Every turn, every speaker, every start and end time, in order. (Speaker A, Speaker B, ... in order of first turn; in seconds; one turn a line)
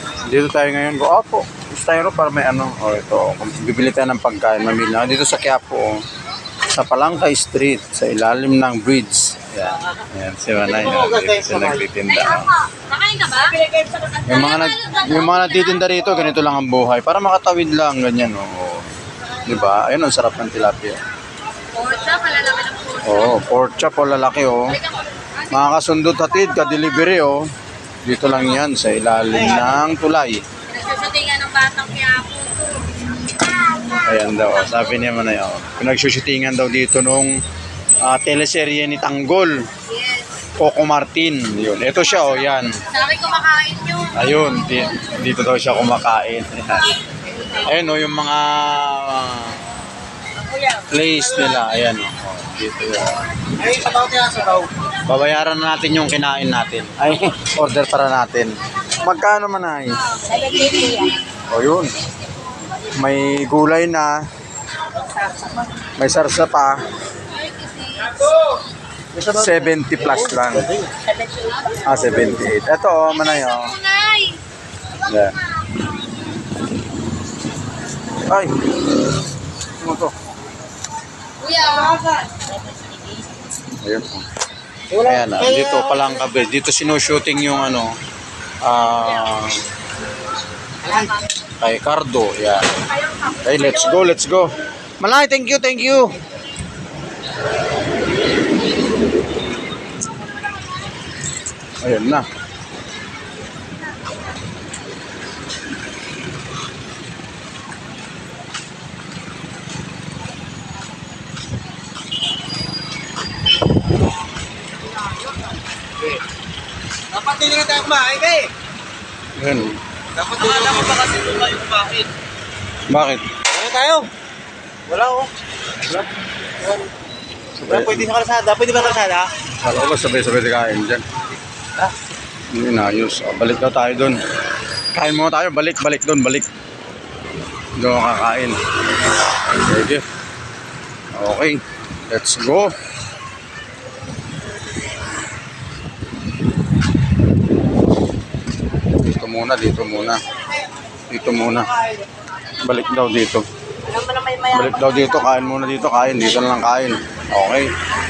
Speaker A: 0.2-6.0
Speaker A: 6.7-12.7
Speaker B: 12.4-13.6
Speaker C: 13.6-14.0
Speaker B: 14.2-15.0
Speaker A: 14.2-18.9
Speaker A: 19.4-21.0
Speaker B: 21.7-23.1
Speaker A: 23.0-24.8
Speaker A: 25.5-27.4
Speaker A: 28.1-30.4
Speaker B: 30.7-32.8
Speaker A: 34.0-37.3
Speaker A: 38.0-39.6
Speaker B: 40.0-40.3
Speaker A: 40.6-42.8
Speaker B: 42.9-44.1
Speaker A: 44.1-46.9
Speaker A: 47.6-49.6
Speaker A: 50.8-53.5
Speaker C: 53.7-54.7
Speaker A: 55.0-60.0
Speaker B: 60.5-60.9
Speaker C: 60.7-61.0
Speaker A: 61.4-61.9
Speaker A: 63.0-64.1
Speaker A: 66.0-66.8
Speaker B: 67.8-68.1
Speaker A: 69.2-70.8
Speaker A: 71.8-73.8
Speaker B: 73.6-74.4
Speaker A: 75.0-75.3
Speaker A: 78.2-78.8
Speaker A: 79.8-80.1
Speaker B: 81.5-81.9
Speaker C: 81.8-82.1
Speaker A: 83.8-84.3
Speaker A: 84.9-87.9
Speaker A: 88.6-89.6
Speaker A: 91.6-96.2
Speaker A: 101.8-102.3
Speaker C: 117.1-118.5
Speaker A: 119.4-119.8
Speaker C: 120.2-122.0
Speaker A: 122.9-123.3
Speaker C: 123.5-124.1
Speaker C: 124.9-125.3
Speaker A: 127.6-128.1
Speaker C: 127.7-129.3
Speaker A: 129.6-131.0
Speaker A: 132.5-134.2
Speaker A: 134.9-136.5
Speaker A: 137.8-138.6
Speaker A: 139.3-140.1
Speaker A: 141.2-142.8
Speaker A: 148.9-150.2
Speaker A: 151.1-151.7
Speaker A: 152.6-153.4
Speaker C: 153.9-155.0
Speaker A: 154.5-157.7